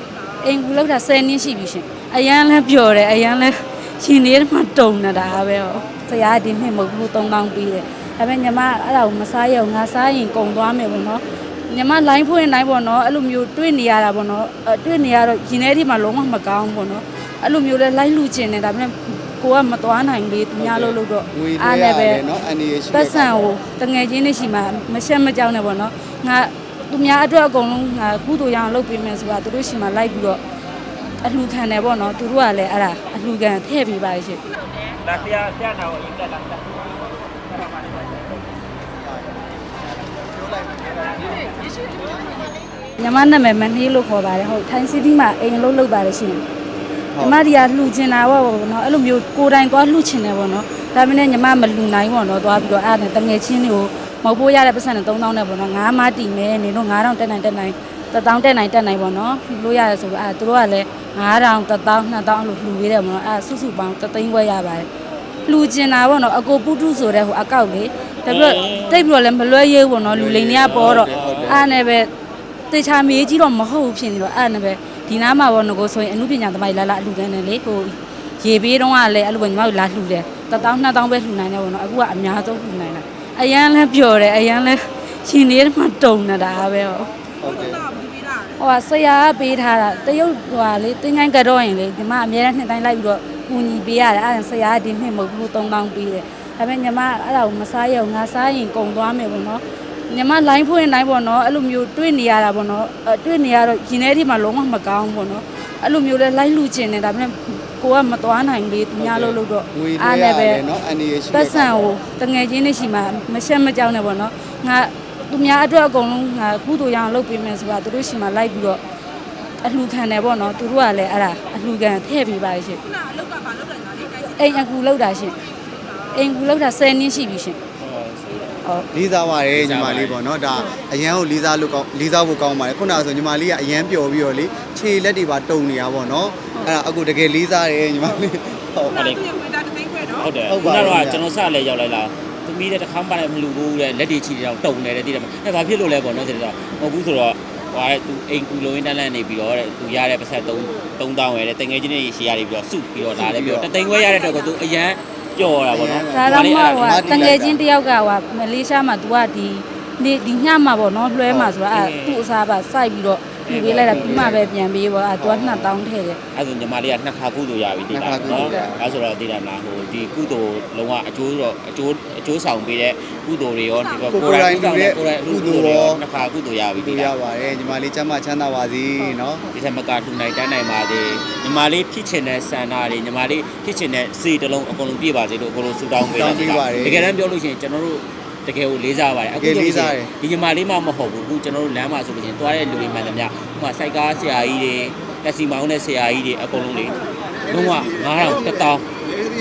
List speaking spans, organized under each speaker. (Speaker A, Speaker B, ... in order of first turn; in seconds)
Speaker A: 0.4-22.2, 22.9-30.4, 31.2-34.4, 43.0-46.4, 47.2-64.9, 65.5-72.1, 72.7-87.1, 88.6-110.6, 111.3-118.8, 119.6-122.8, 124.4-125.4, 126.1-127.6, 156.1-166.2
Speaker B: 20.6-23.6, 38.9-42.6, 47.1-47.4, 70.1-71.8, 87.4-87.8, 109.0-112.0, 128.9-139.0, 140.4-141.2, 153.1-153.7, 155.7-157.6, 161.3-161.6, 163.8-164.4, 165.2-165.8, 167.9-168.9, 174.0-176.0, 176.8-179.5, 186.0-187.2, 189.4-190.1
Speaker C: 34.9-38.4, 68.3-69.1, 70.6-71.6, 127.8-128.6, 129.5-130.2, 138.9-139.2, 140.1-157.3, 161.7-162.3, 163.5-164.5, 166.3-177.1, 179.5-198.9
Speaker D: 87.4-88.6, 122.9-124.5, 138.9-140.3, 173.9-174.3